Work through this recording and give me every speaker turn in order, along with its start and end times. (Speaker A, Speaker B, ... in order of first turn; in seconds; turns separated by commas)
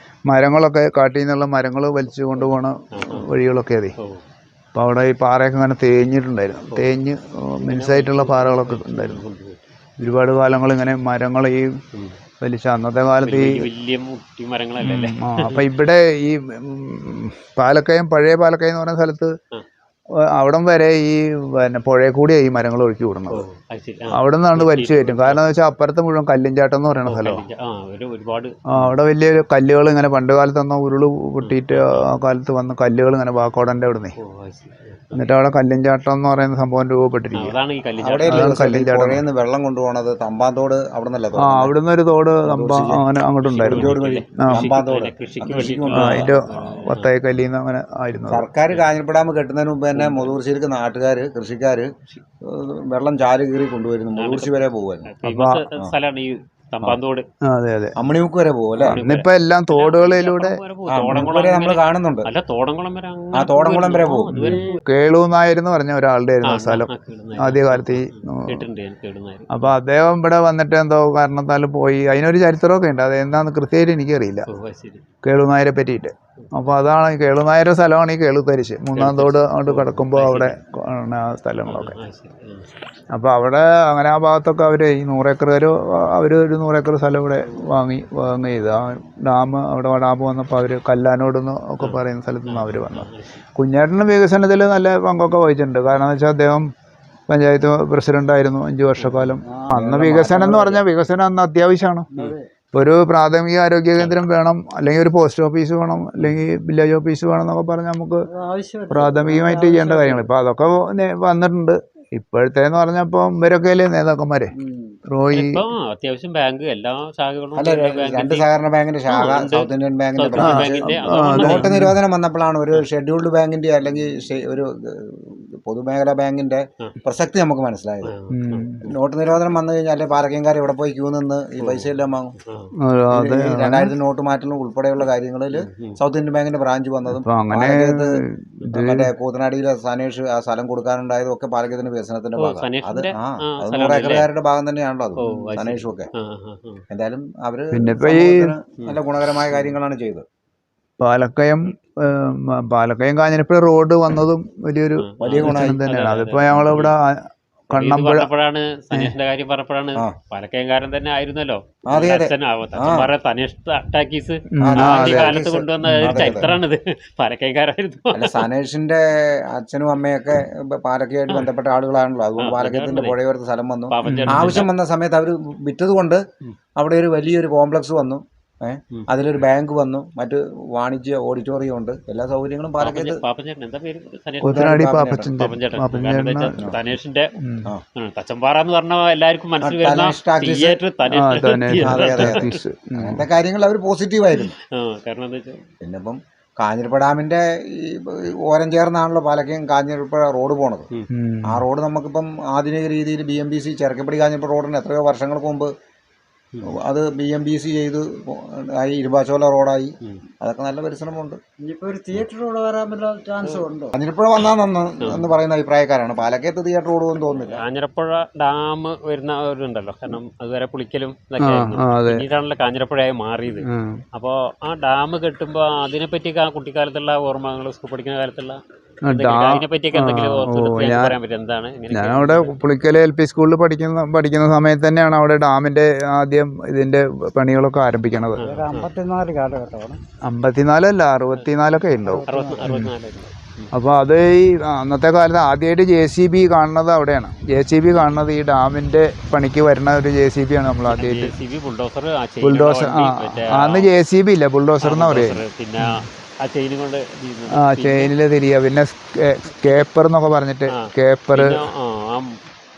Speaker A: 0.3-4.0, Speaker B: 2.9-3.2, Speaker B: 4.0-4.2, Speaker A: 4.7-9.2, Speaker B: 7.6-9.6, Speaker A: 10.0-11.7, Speaker A: 12.4-13.6, Speaker B: 13.2-15.6, Speaker A: 14.8-19.3, Speaker A: 20.3-23.4, Speaker B: 23.3-25.5, Speaker A: 24.1-27.4, Speaker B: 27.1-28.9, Speaker A: 28.7-34.1, Speaker B: 31.4-32.0, Speaker B: 34.2-35.2, Speaker A: 35.1-37.5, Speaker B: 37.4-38.6, Speaker C: 38.0-41.7, Speaker A: 38.3-39.2, Speaker A: 41.4-44.7, Speaker C: 42.4-43.0, Speaker B: 43.4-47.1, Speaker C: 43.6-46.3, Speaker A: 45.9-48.5, Speaker C: 48.3-51.9, Speaker B: 49.9-50.4, Speaker C: 52.5-55.1, Speaker B: 54.2-57.2, Speaker A: 55.2-55.6, Speaker A: 57.5-57.9, Speaker C: 58.0-59.0, Speaker B: 58.8-64.8, Speaker A: 58.9-60.6, Speaker C: 60.9-62.3, Speaker C: 63.3-64.6, Speaker A: 64.3-68.7, Speaker B: 66.4-69.6, Speaker A: 69.5-74.5, Speaker B: 74.5-75.0, Speaker A: 75.2-82.0, Speaker B: 78.9-80.5, Speaker B: 81.6-82.7, Speaker A: 83.1-96.7, Speaker B: 91.8-93.3, Speaker A: 97.3-102.1, Speaker B: 99.0-99.4, Speaker C: 99.7-100.8, Speaker A: 102.7-108.3, Speaker B: 104.0-104.2, Speaker D: 108.3-110.2, Speaker A: 108.9-114.5, Speaker A: 115.1-115.6, Speaker B: 115.3-118.5, Speaker C: 117.5-128.1, Speaker B: 119.1-121.7, Speaker A: 120.4-122.0, Speaker B: 128.0-128.7, Speaker A: 128.3-128.9, Speaker C: 128.8-132.3, Speaker B: 131.6-131.9, Speaker B: 132.4-132.7, Speaker A: 132.8-133.9, Speaker C: 133.1-138.2, Speaker B: 135.5-136.0, Speaker A: 137.1-139.1, Speaker C: 138.7-146.1, Speaker B: 142.4-144.3, Speaker B: 145.2-146.8, Speaker C: 146.9-150.2, Speaker A: 147.7-148.5, Speaker B: 149.5-149.7, Speaker A: 151.0-157.2, Speaker B: 155.0-156.9, Speaker C: 155.2-155.8, Speaker A: 157.7-158.3, Speaker B: 157.7-168.4, Speaker C: 161.9-163.1, Speaker A: 164.5-166.6, Speaker C: 164.6-166.5, Speaker C: 168.1-176.2, Speaker B: 172.4-173.2, Speaker B: 173.9-174.7, Speaker A: 174.0-174.6, Speaker C: 176.8-183.2, Speaker B: 178.9-179.4, Speaker B: 182.8-184.8, Speaker C: 184.4-185.3, Speaker A: 184.4-186.6, Speaker B: 185.3-187.3, Speaker A: 187.4-187.7, Speaker B: 187.9-192.6, Speaker C: 189.6-190.8, Speaker A: 191.1-193.2, Speaker C: 191.8-194.5, Speaker B: 194.3-195.6, Speaker C: 195.8-200.9, Speaker A: 201.1-201.6, Speaker C: 201.5-205.7, Speaker C: 206.7-211.4, Speaker D: 211.7-213.9, Speaker C: 213.5-217.6, Speaker B: 215.0-215.3, Speaker B: 217.3-232.5, Speaker A: 221.4-222.2, Speaker A: 223.5-224.0, Speaker A: 229.1-231.2, Speaker A: 231.9-238.4, Speaker B: 238.4-238.9, Speaker D: 238.4-240.0, Speaker A: 240.2-242.9, Speaker D: 242.1-242.6, Speaker B: 242.3-243.7, Speaker A: 243.7-251.3, Speaker B: 250.9-253.9, Speaker A: 252.4-256.0, Speaker B: 254.8-258.1, Speaker A: 257.5-261.6, Speaker B: 260.7-262.3